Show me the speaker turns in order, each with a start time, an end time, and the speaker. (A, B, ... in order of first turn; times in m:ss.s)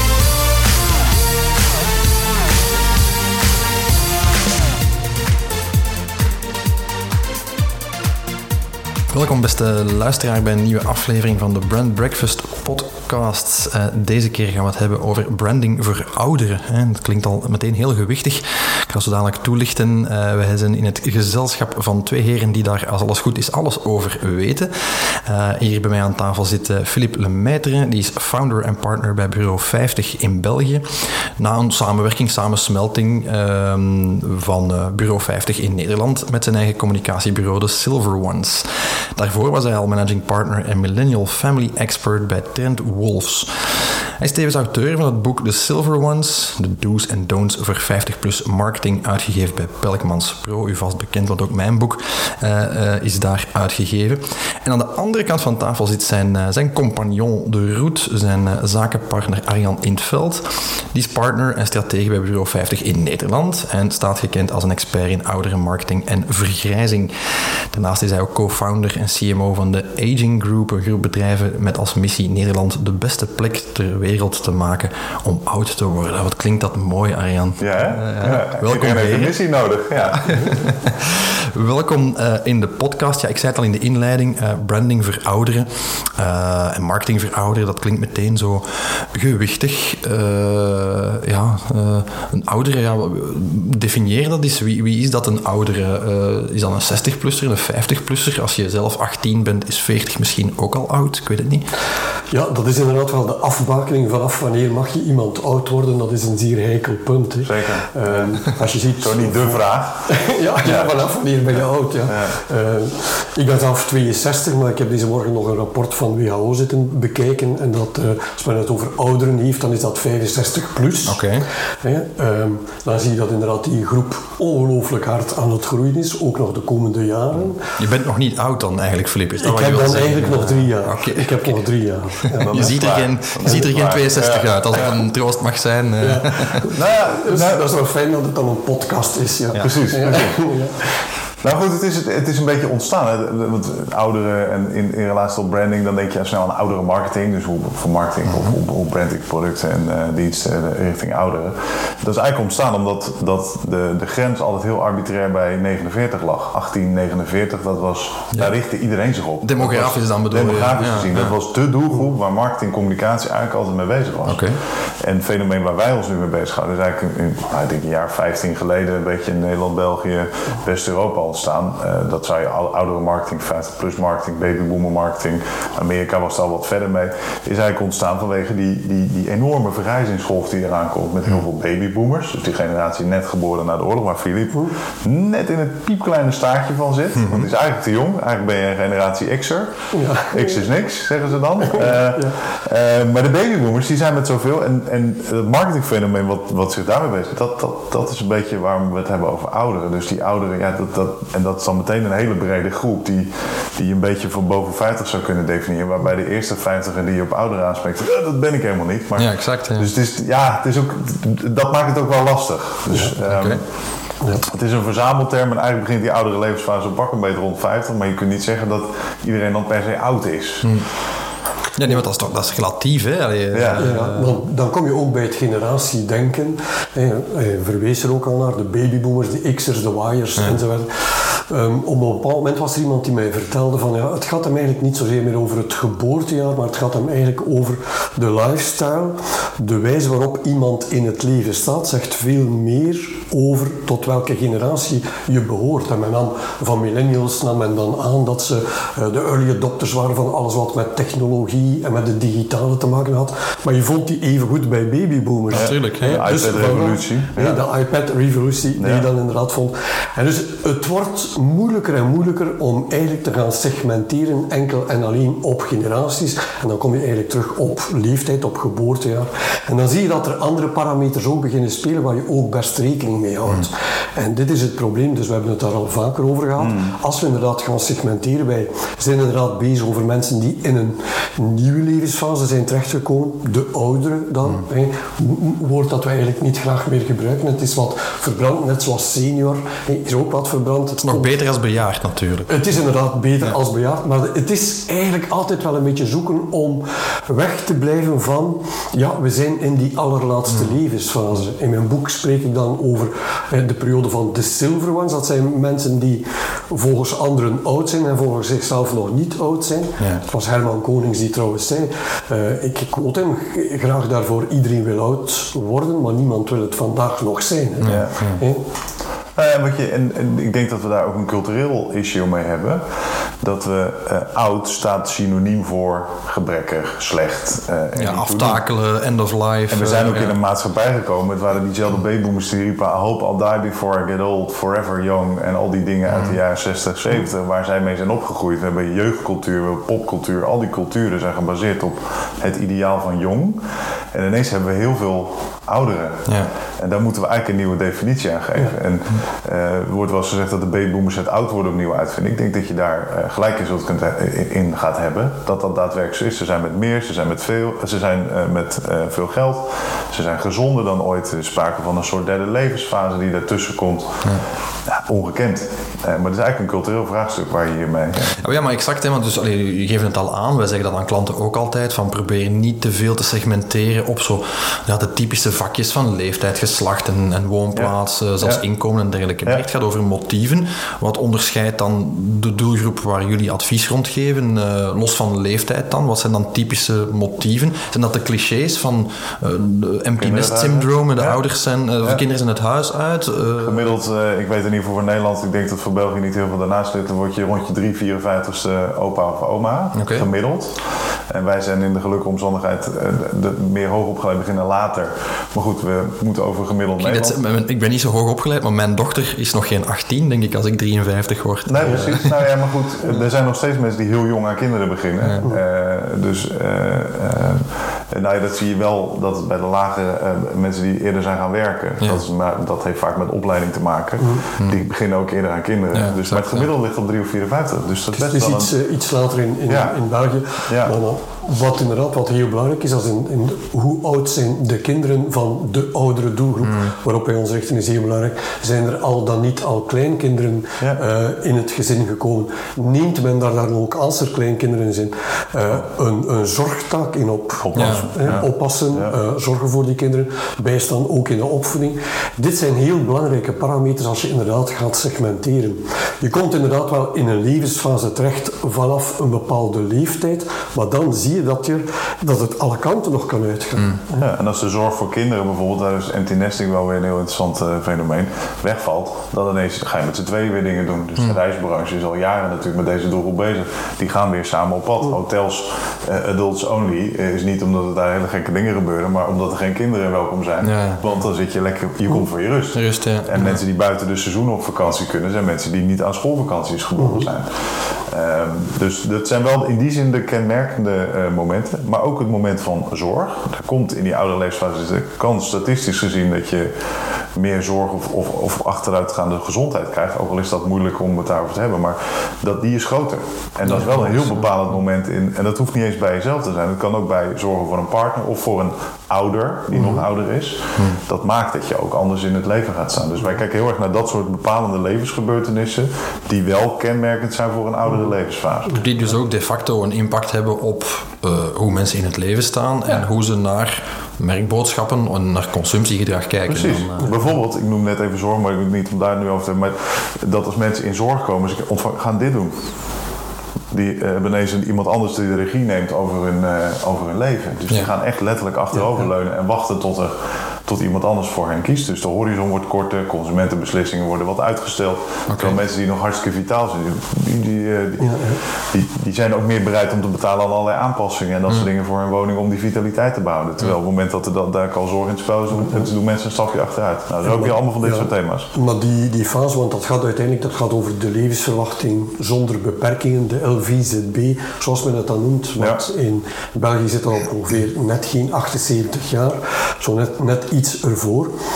0:09.1-1:19.4 A
1:17.6-1:20.5 B
1:20.0-1:41.7 A
1:42.3-2:07.6 C
1:47.4-1:50.9 B
1:52.1-1:52.4 B
2:01.0-2:01.5 A
2:07.8-2:11.6 A
2:09.4-2:12.7 C
2:12.3-2:16.7 A
2:12.4-2:15.0 B
2:16.0-2:21.0 C
2:16.7-2:17.7 B
2:19.6-2:20.5 B
2:21.4-2:44.4 B
2:39.4-2:41.3 A
2:44.3-2:44.6 A
2:45.0-3:33.6 B
3:09.9-3:10.6 C
3:11.6-3:12.4 C
3:29.2-3:29.9 A
3:33.2-3:33.6 A
3:34.4-3:40.8 B
3:41.8-3:44.4 A
3:43.5-3:43.9 B
3:43.8-4:51.3 C
4:15.5-4:16.2 A
4:15.5-4:17.6 B
4:18.8-4:19.0 B
4:36.6-4:37.0 B
4:51.0-4:52.7 A
4:52.5-5:18.6 C
5:17.8-5:18.4 A
5:17.9-5:18.2 B
5:19.4-5:22.9 B
5:23.4-5:28.6 B
5:28.0-5:30.4 A
5:29.7-6:04.3 B
6:04.9-6:08.4 B
6:08.4-6:33.9 A
6:17.8-6:18.6 B
6:30.2-6:31.4 B
6:33.6-6:47.4 B
6:40.0-6:40.3 A
6:47.0-6:52.5 A
6:51.7-7:08.7 B
7:04.2-7:04.4 C
7:05.9-7:06.7 A
7:08.1-7:44.3 C
7:09.7-7:10.0 B
7:10.7-7:11.0 B
7:16.6-7:16.9 A
7:27.6-7:29.2 B
7:27.7-7:28.4 A
7:44.2-8:16.7 B
8:00.6-8:01.0 A
8:02.7-8:03.6 A
8:07.0-8:07.3 C
8:17.4-8:38.8 B
8:23.7-8:24.4 A
8:38.7-8:47.1 A
8:46.5-8:52.6 B
8:53.7-9:18.5 B
9:05.3-9:05.6 A
9:08.0-9:08.4 C
9:17.2-9:31.3 C